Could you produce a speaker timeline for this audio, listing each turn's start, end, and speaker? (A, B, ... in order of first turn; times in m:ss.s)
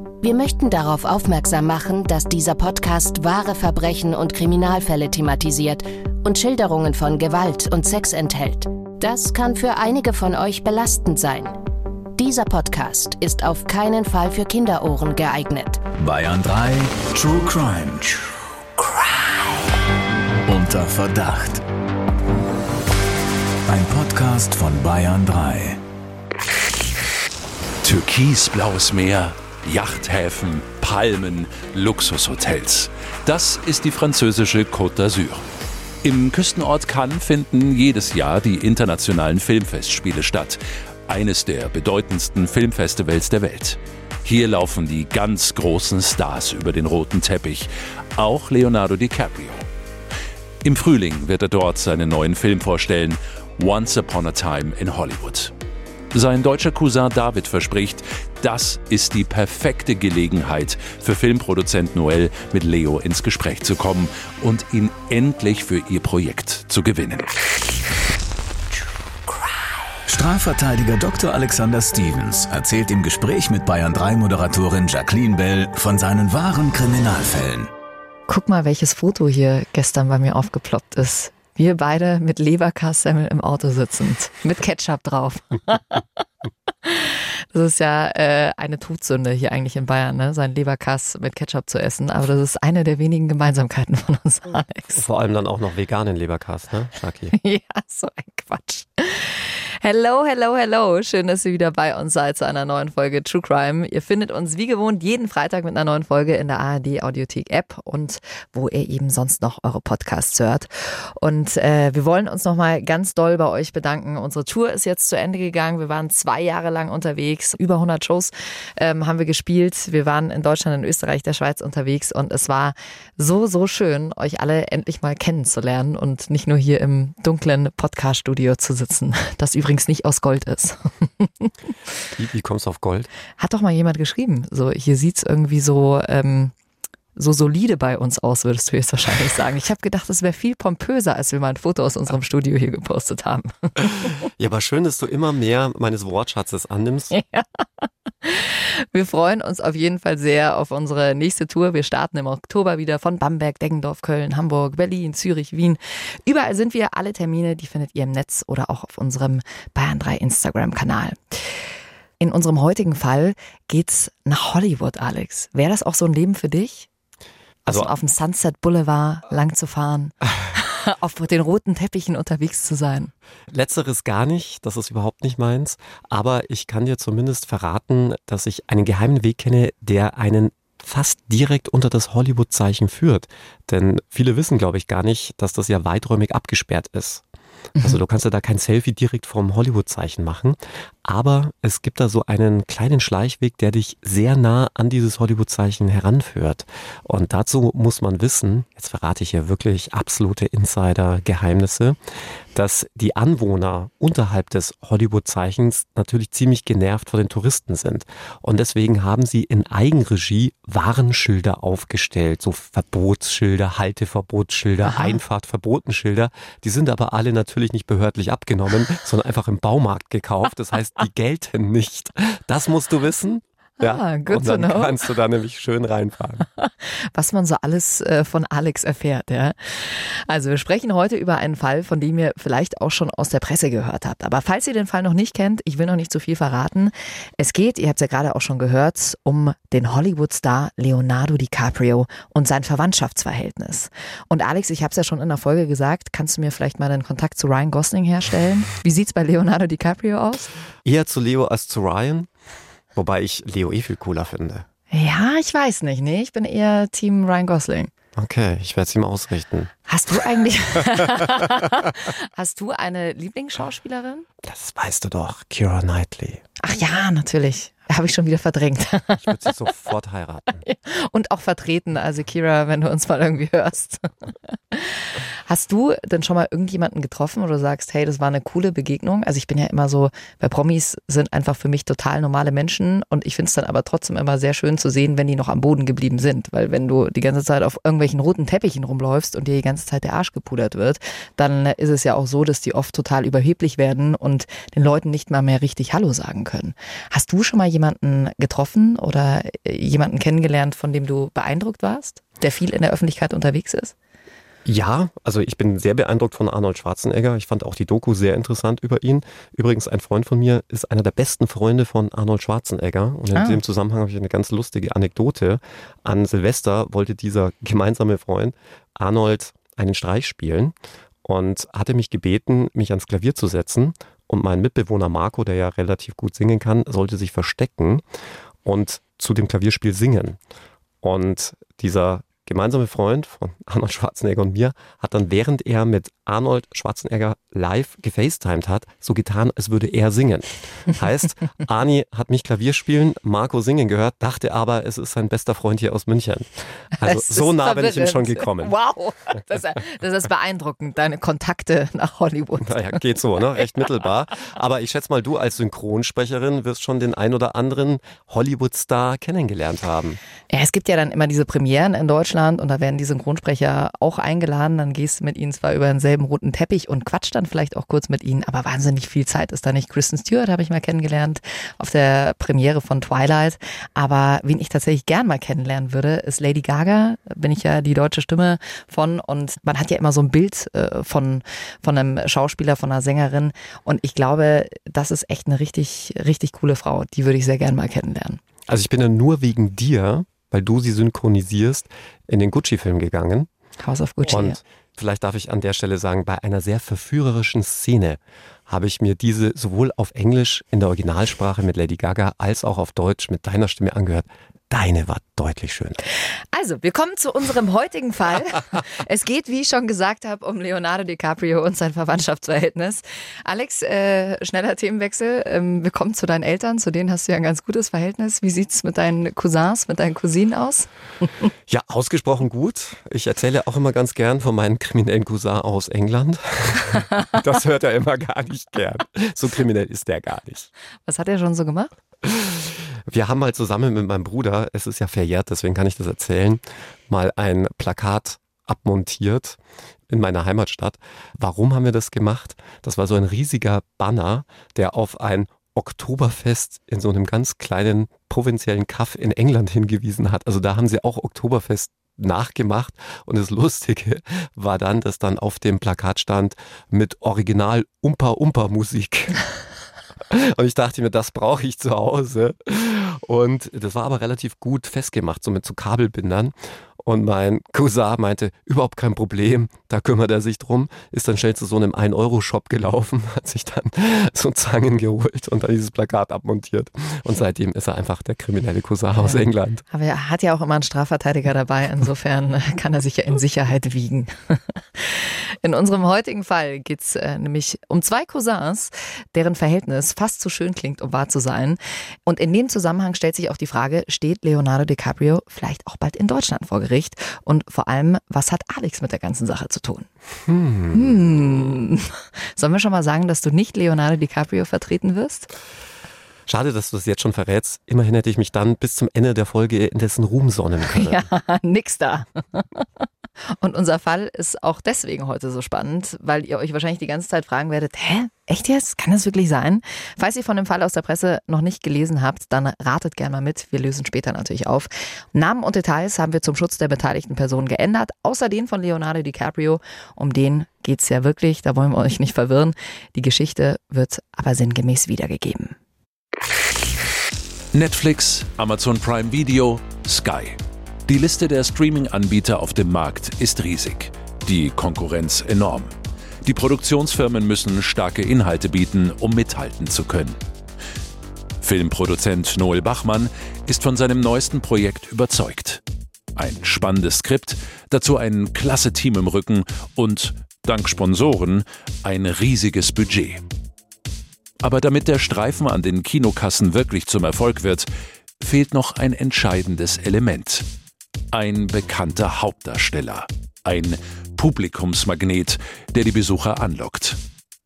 0:00.2-0:11.6 A
0:12.2-0:15.9 A
0:16.0-0:18.3 B
0:20.5-0:21.6 B
0:23.7-0:25.8 B
0:27.8-0:35.4 C
0:36.0-0:49.6 C
0:50.6-0:55.5 C
0:56.1-1:07.3 C
1:10.1-1:17.7 B
1:18.3-1:26.0 D
1:26.8-1:35.0 D
1:35.0-1:37.4 E
1:37.3-2:11.5 D
2:12.2-2:13.1 E
2:13.4-2:16.5 D
2:17.2-2:24.2 D
2:24.2-2:27.1 E
2:27.1-2:41.3 D
2:42.2-2:46.9 D
2:47.7-2:53.1 D
2:47.7-2:47.9 E
2:53.5-3:07.2 E
3:07.8-3:22.0 E
3:22.5-3:46.5 E
3:34.9-3:35.2 D
3:43.8-3:45.0 D
3:46.6-4:10.5 D
4:10.8-4:12.3 E
4:13.0-4:14.7 E
4:14.9-4:17.9 D
4:18.2-4:19.7 E
4:19.9-4:24.3 D
4:24.4-4:26.4 E
4:26.6-4:29.5 D
4:29.2-4:30.6 E
4:30.6-5:03.9 D
5:04.6-5:28.0 E
5:13.3-5:13.6 D
5:28.6-5:30.4 E
5:31.0-5:48.7 E
5:47.0-5:53.0 D
5:52.6-6:00.2 E
6:00.5-6:28.4 D
6:28.7-6:33.5 E
6:33.8-6:34.6 D
6:34.2-6:46.0 E
6:46.5-7:00.9 D
7:01.7-7:10.7 E
7:11.1-7:11.9 D
7:12.2-7:39.4 E
7:40.3-7:59.8 E
7:59.2-8:20.1 D
8:20.5-8:21.2 E
8:20.9-8:25.5 D
8:26.5-8:31.3 E
8:30.9-8:32.9 D
8:33.6-8:55.8 D
8:57.7-9:05.9 C
9:06.4-9:10.4 C
9:11.6-9:15.8 C
9:16.4-9:23.4 C
9:24.6-9:27.9 C
9:28.4-9:30.7 C
9:31.3-9:37.2 C